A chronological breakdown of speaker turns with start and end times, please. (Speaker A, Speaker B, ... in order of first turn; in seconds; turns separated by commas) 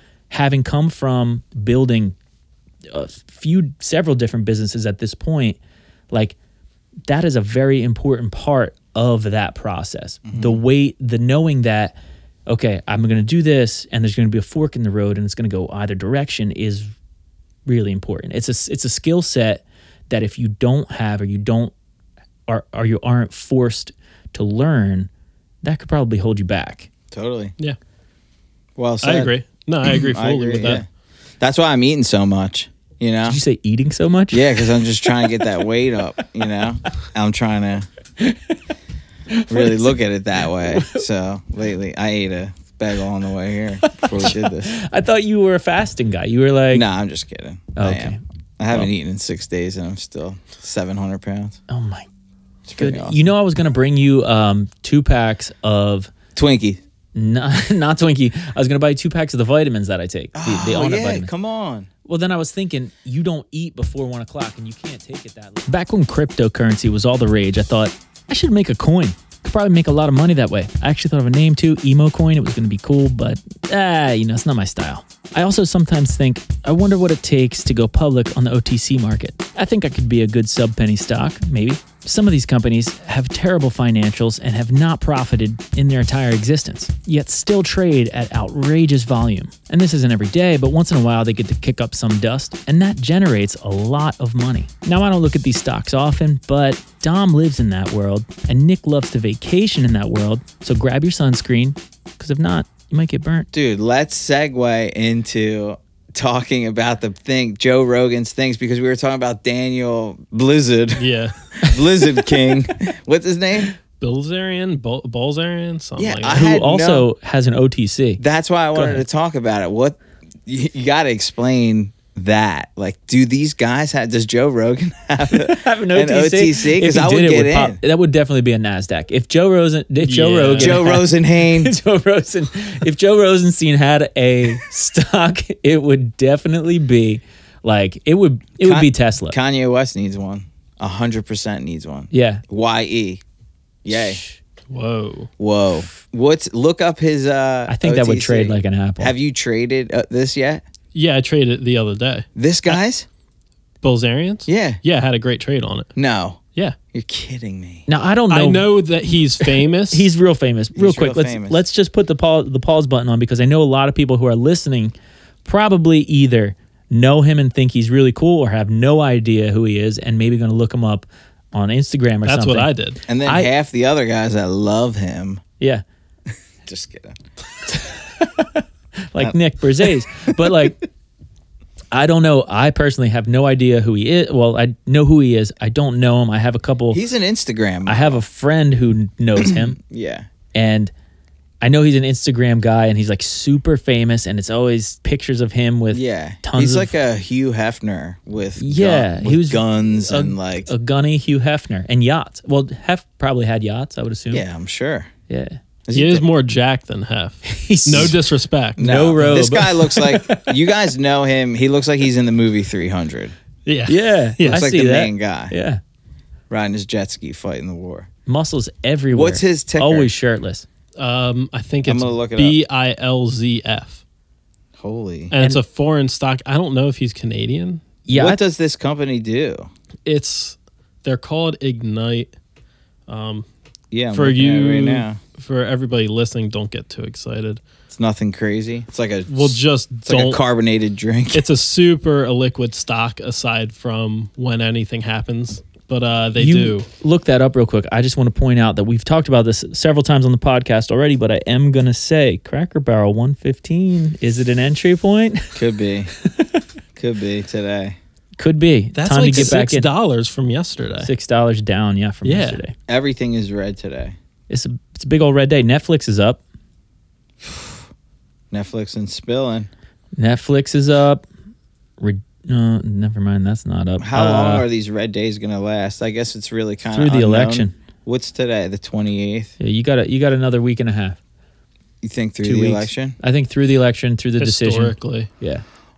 Speaker A: 0.3-2.1, Speaker A: 2.9-5.6, Speaker A: 7.1-12.0, Speaker B: 10.3-10.6, Speaker A: 12.5-16.9, Speaker A: 17.7-21.7, Speaker A: 22.5-25.1, Speaker A: 25.6-26.9, Speaker B: 27.1-27.5, Speaker B: 28.8-29.3, Speaker C: 29.0-30.8, Speaker B: 29.9-30.9, Speaker B: 31.4-33.4, Speaker A: 33.3-35.5, Speaker B: 34.3-37.9, Speaker A: 38.2-38.5, Speaker A: 39.3-40.0, Speaker B: 39.5-44.7, Speaker A: 40.7-41.0, Speaker A: 43.8-46.9, Speaker B: 46.7-51.6, Speaker A: 47.8-48.2, Speaker A: 51.7-52.1, Speaker B: 52.7-53.2, Speaker A: 52.8-56.1, Speaker B: 56.4-56.8, Speaker A: 57.1-61.3, Speaker B: 60.4-61.9, Speaker A: 62.0-103.5, Speaker B: 103.5-113.8, Speaker C: 111.0-111.4, Speaker C: 114.0-116.5, Speaker B: 116.0-117.1, Speaker A: 116.3-118.2, Speaker B: 118.2-127.8, Speaker A: 118.7-119.0, Speaker A: 125.3-139.4, Speaker C: 130.0-130.8, Speaker B: 130.6-131.7, Speaker B: 138.6-143.2, Speaker A: 142.1-142.4, Speaker B: 143.8-144.2, Speaker A: 143.9-144.4, Speaker C: 144.7-145.3, Speaker B: 145.4-150.6, Speaker A: 147.7-149.1, Speaker C: 150.9-152.8, Speaker B: 152.4-153.1, Speaker C: 153.8-155.9, Speaker B: 154.5-154.8, Speaker B: 156.0-156.4, Speaker B: 156.9-157.9, Speaker A: 157.9-158.7, Speaker C: 158.3-160.1, Speaker A: 159.9-164.9, Speaker B: 160.8-161.6, Speaker A: 165.4-172.7, Speaker C: 172.2-173.0, Speaker B: 173.1-175.4, Speaker A: 173.2-173.5, Speaker B: 176.7-177.2, Speaker A: 177.7-180.8, Speaker A: 181.9-187.0, Speaker B: 186.9-188.2, Speaker A: 187.9-189.8, Speaker B: 189.4-190.3, Speaker A: 190.5-190.9, Speaker A: 191.6-196.9, Speaker B: 195.9-200.7, Speaker A: 198.6-204.4, Speaker B: 204.3-205.1, Speaker A: 205.3-205.6, Speaker B: 205.9-206.2, Speaker C: 205.9-208.8, Speaker A: 207.4-208.2, Speaker B: 208.8-213.3, Speaker A: 208.8-210.6, Speaker C: 213.7-214.6, Speaker A: 213.9-215.8, Speaker B: 214.4-215.5, Speaker B: 216.5-218.1, Speaker A: 218.3-220.7, Speaker B: 219.1-220.1, Speaker C: 221.0-224.0, Speaker B: 221.8-222.6, Speaker B: 224.8-225.3, Speaker C: 225.3-227.8, Speaker A: 228.1-228.4, Speaker B: 228.1-229.7, Speaker C: 230.1-232.3, Speaker C: 233.1-233.5, Speaker B: 233.9-235.2, Speaker C: 234.1-237.6, Speaker B: 237.9-241.4, Speaker C: 239.3-240.4, Speaker C: 241.3-246.9, Speaker A: 246.4-255.6, Speaker B: 255.6-256.1, Speaker B: 257.0-258.0, Speaker A: 258.4-259.9, Speaker C: 258.9-261.1, Speaker A: 261.0-262.8, Speaker C: 262.2-262.6, Speaker B: 262.9-264.2, Speaker A: 264.5-266.4, Speaker B: 268.5-269.7, Speaker A: 270.2-271.2, Speaker A: 272.0-274.7, Speaker B: 274.0-279.5, Speaker A: 276.9-277.7, Speaker A: 279.6-281.2, Speaker B: 282.0-283.2, Speaker A: 282.4-285.6, Speaker C: 284.4-285.3